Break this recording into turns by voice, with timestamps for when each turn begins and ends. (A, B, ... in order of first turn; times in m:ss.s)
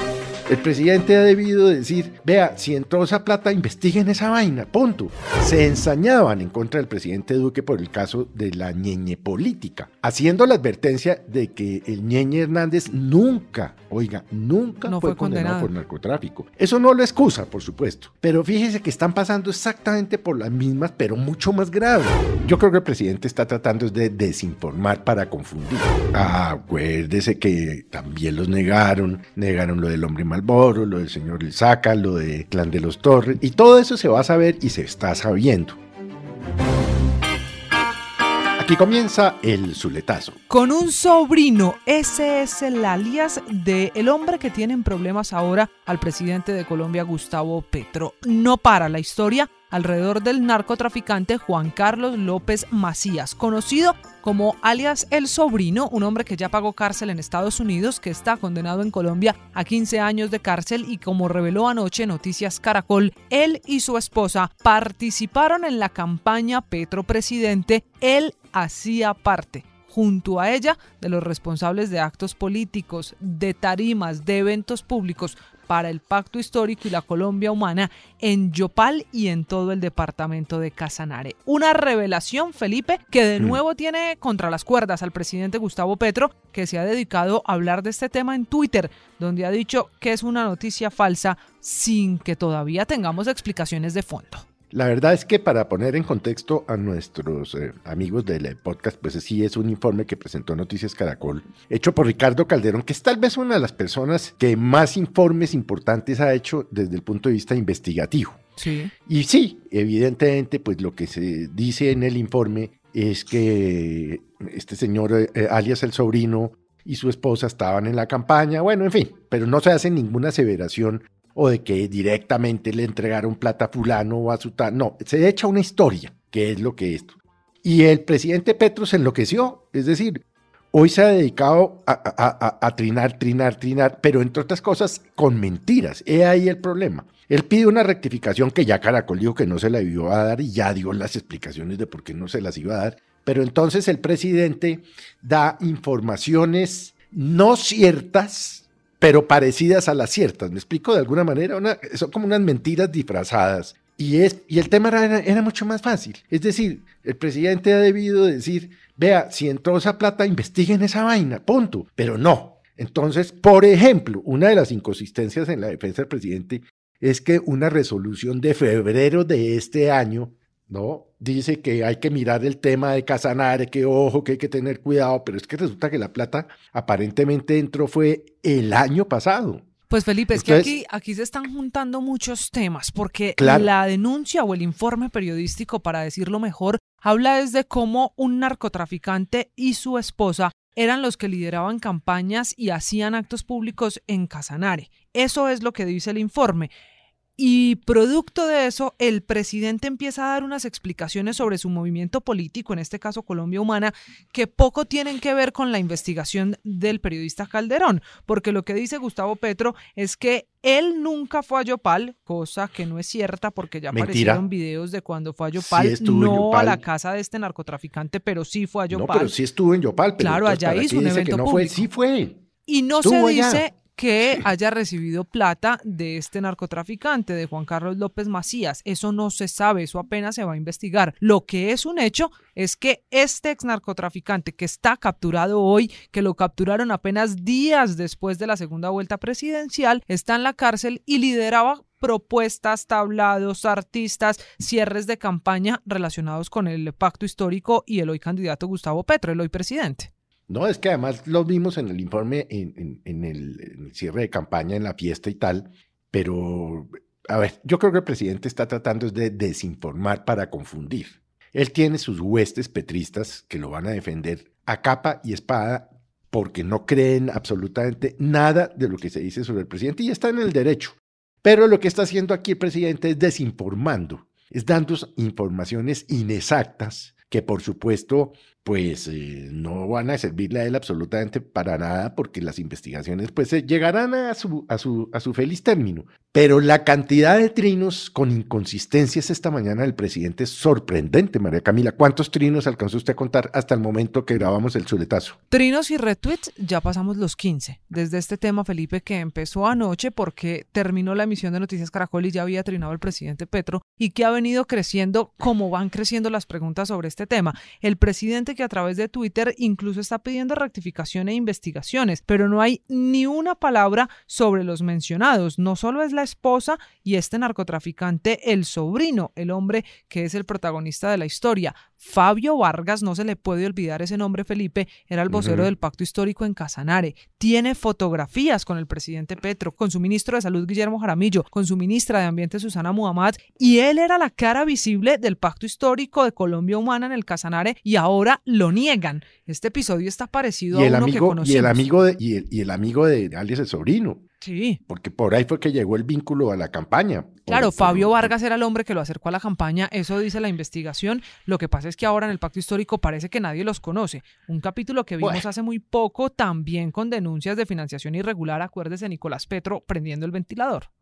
0:00.5-0:35.8 A
0:14.9-0:15.7 B
0:38.6-0:40.4 A
0:40.5-1:34.4 B
1:34.7-1:48.4 A
1:48.6-1:48.9 B
1:49.1-2:59.6 A
2:59.9-3:16.7 B
3:00.3-3:00.7 A
3:03.4-3:03.7 A
3:17.4-3:39.4 B
3:33.9-3:34.5 A
3:35.6-3:36.8 A
3:38.9-3:42.4 A
3:40.2-3:41.9 B
3:42.7-4:10.1 B
3:43.0-3:43.7 A
4:10.5-4:55.4 A
4:55.5-5:41.9 B
5:25.3-5:25.7 A
5:40.7-5:44.2 A
5:44.4-5:44.8 B
5:44.9-5:48.3 A
5:47.5-6:00.9 B
5:55.2-5:55.5 A